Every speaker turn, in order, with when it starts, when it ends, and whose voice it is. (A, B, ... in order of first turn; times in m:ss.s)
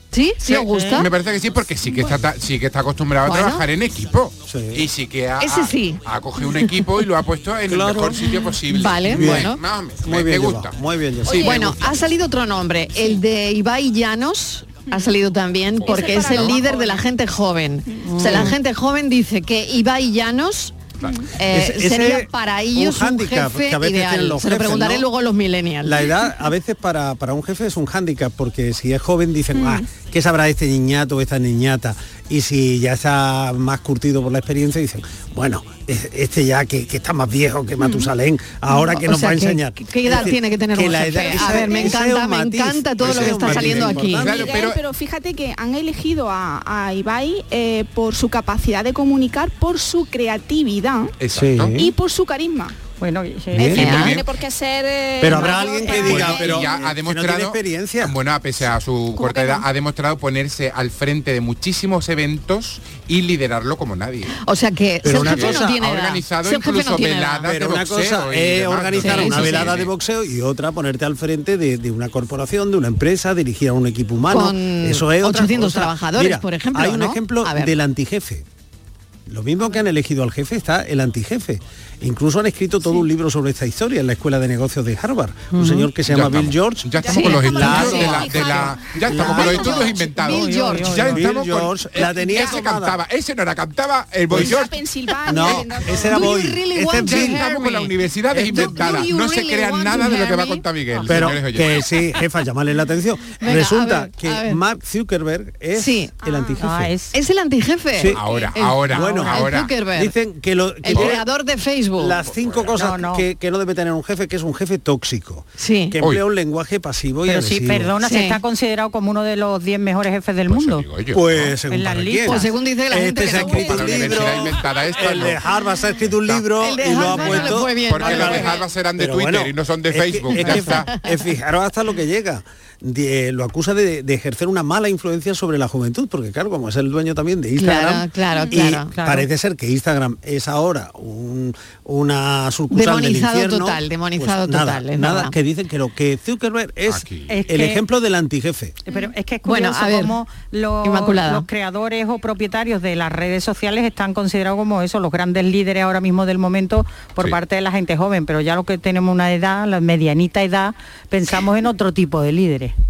0:00.1-0:01.1 A
0:00.5-0:10.8 B
0:00.8-0:01.0 C
0:01.9-0:02.2 D
0:03.2-0:03.7 A
0:04.5-0:04.9 E
0:05.4-0:06.9 A
0:07.7-0:08.2 E
0:08.7-0:09.6 A
0:09.0-0:09.5 E
0:10.0-0:11.8 E
0:11.2-0:11.7 D
0:11.3-0:11.7 B
0:11.4-0:20.8 A
0:15.8-0:16.6 B
0:15.8-0:17.0 D
0:17.9-0:18.4 D
0:18.2-0:18.5 E
0:21.0-0:21.3 D
0:21.4-0:26.1 A
0:21.5-0:25.1 E
0:25.8-0:44.4 E
0:29.5-0:29.9 D
0:37.8-0:38.1 D
0:38.7-0:44.3 A
0:41.3-0:42.0 D
0:43.0-0:44.8 B
0:44.1-0:51.1 D
0:51.2-0:51.8 B
0:51.4-0:51.8 E
0:51.8-0:52.8 D
0:53.0-0:53.8 C
0:53.6-0:53.9 E
0:53.6-0:54.2 A
0:53.7-0:54.3 B
0:53.8-0:56.7 D
0:55.2-0:58.2 E
0:55.9-1:04.4 B
0:59.2-0:59.6 D
1:04.4-1:07.5 A
1:05.0-1:05.8 E
1:05.1-1:09.9 B
1:07.4-1:18.4 E
1:09.0-1:09.8 A
1:14.3-1:17.7 A
1:19.3-1:28.5 E
1:26.1-1:34.8 B
1:27.0-1:30.0 D
1:27.1-1:31.1 A
1:29.1-1:29.9 E
1:30.2-1:31.3 C
1:31.1-1:33.0 E
1:34.3-1:34.6 E
1:34.3-1:36.3 D
1:35.2-1:37.4 E
1:35.3-1:35.8 B
1:36.0-1:40.6 A
1:37.0-1:41.9 B
1:41.1-1:46.9 E
1:43.4-1:44.6 A
1:45.7-1:46.1 A
1:46.2-1:46.6 D
1:46.6-1:47.1 C
1:47.1-1:50.2 A
1:48.1-1:49.8 B
1:48.2-1:48.5 D
1:48.9-1:51.2 E
1:50.8-1:52.2 A
1:52.0-1:57.9 E
1:52.3-1:52.8 B
1:52.8-1:53.2 C
1:55.6-1:56.0 A
1:57.2-2:00.8 C
1:58.0-1:58.4 A
2:00.5-2:01.6 B
2:01.1-2:08.5 E
2:01.7-2:02.5 C
2:02.2-2:04.4 A
2:03.4-2:03.8 D
2:03.4-2:05.5 B
2:06.0-2:06.5 B
2:06.6-2:08.6 A
2:07.0-2:10.9 B
2:09.0-2:28.8 E
2:10.4-2:11.0 A
2:17.6-2:18.9 A
2:18.9-2:19.3 C
2:22.7-2:25.4 A
2:26.9-2:27.4 B
2:27.3-2:27.8 C
2:28.9-2:42.7 C
2:29.4-2:30.2 A
2:30.8-2:31.5 A